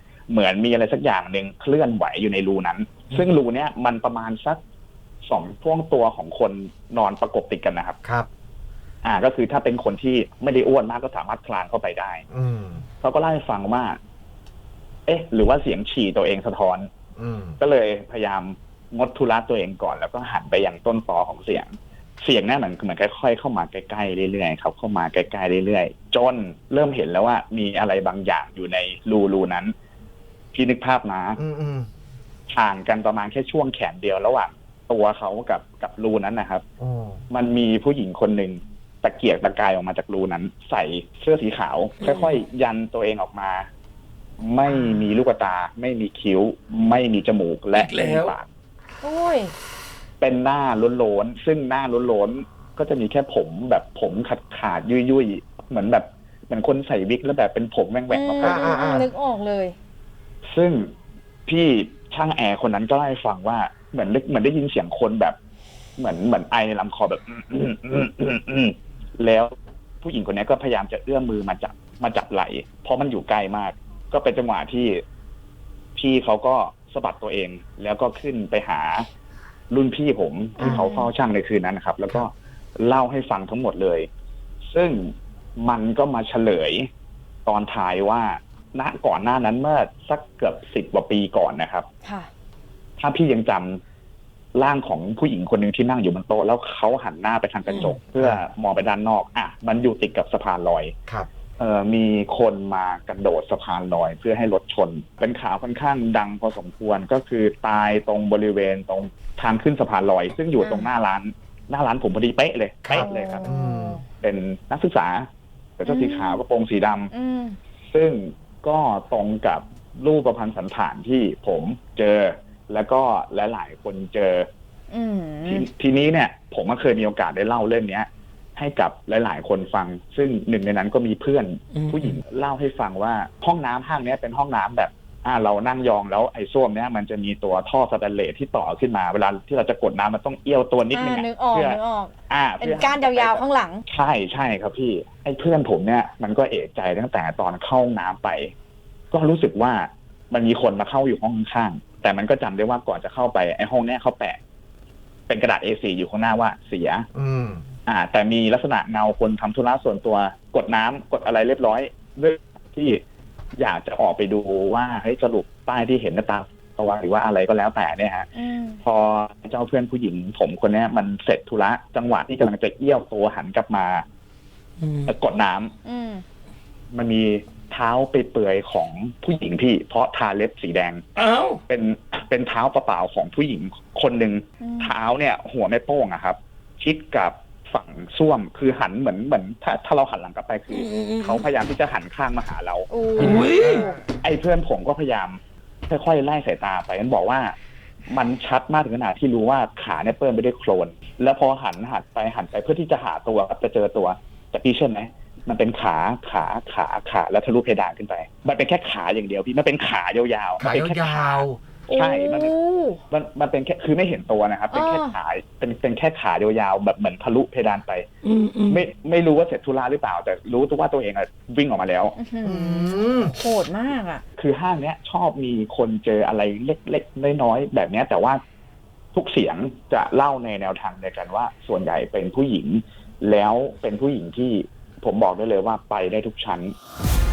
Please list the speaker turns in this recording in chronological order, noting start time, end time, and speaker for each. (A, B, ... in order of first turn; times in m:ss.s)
0:00.3-0:04.6 A
0:05.3-0:08.0 A
0:09.0-0:12.2 A
0:12.3-0:12.8 B
0:13.0-0:14.0 A
0:15.1-0:16.9 A
0:17.2-0:17.6 B
0:17.6-0:29.7 A
0:30.5-0:31.4 A
0:31.4-0:31.9 B
0:32.5-0:36.6 A
0:36.8-0:37.2 B
0:37.3-0:43.7 A
0:42.0-0:42.4 C
0:44.4-0:48.5 A
0:47.7-0:48.4 C
0:49.0-0:49.5 D
0:50.2-0:58.8 A
0:58.1-0:59.8 D
0:58.4-0:59.1 B
1:00.5-1:00.9 A
1:01.5-1:05.4 A
1:06.0-1:15.0 A
1:16.0-1:19.1 A
1:19.7-1:24.1 A
1:20.6-1:21.1 D
1:24.7-1:26.9 A
1:27.5-1:31.9 A
1:33.0-1:33.8 A
1:34.6-1:41.0 A
1:37.7-1:38.0 C
1:41.6-1:53.5 A
1:50.6-1:50.9 D
1:52.9-1:54.0 B
1:52.9-1:54.0 D
1:54.2-1:57.1 A
1:55.9-1:56.4 D
1:57.1-1:57.6 D
1:57.9-2:04.5 A
2:04.9-2:05.7 D
2:05.5-2:28.5 A
2:11.7-2:12.2 C
2:20.9-2:23.8 D
2:29.1-2:34.4 A
2:35.3-2:37.1 A
2:37.2-2:37.6 B
2:37.9-2:43.0 A
2:43.6-2:48.3 A
2:48.3-2:48.8 D
2:48.8-2:54.0 A
2:54.8-2:55.2 C
2:55.1-2:55.7 A
2:55.8-2:56.2 D
2:56.9-3:01.0 A
3:01.2-3:01.6 C
3:01.7-3:13.5 A
3:04.6-3:04.9 D
3:10.7-3:11.4 C
3:12.9-3:14.0 D
3:13.2-3:13.9 C
3:14.2-3:15.4 A
3:15.9-3:17.6 A
3:18.1-3:32.5 A
3:30.6-3:31.6 B
3:31.9-3:33.0 D
3:33.1-3:38.1 A
3:34.7-3:35.2 D
3:38.2-3:38.9 C
3:38.7-3:42.2 A
3:42.2-3:44.2 D
3:42.4-3:43.4 B
3:44.4-3:48.4 A
3:49.1-3:56.7 A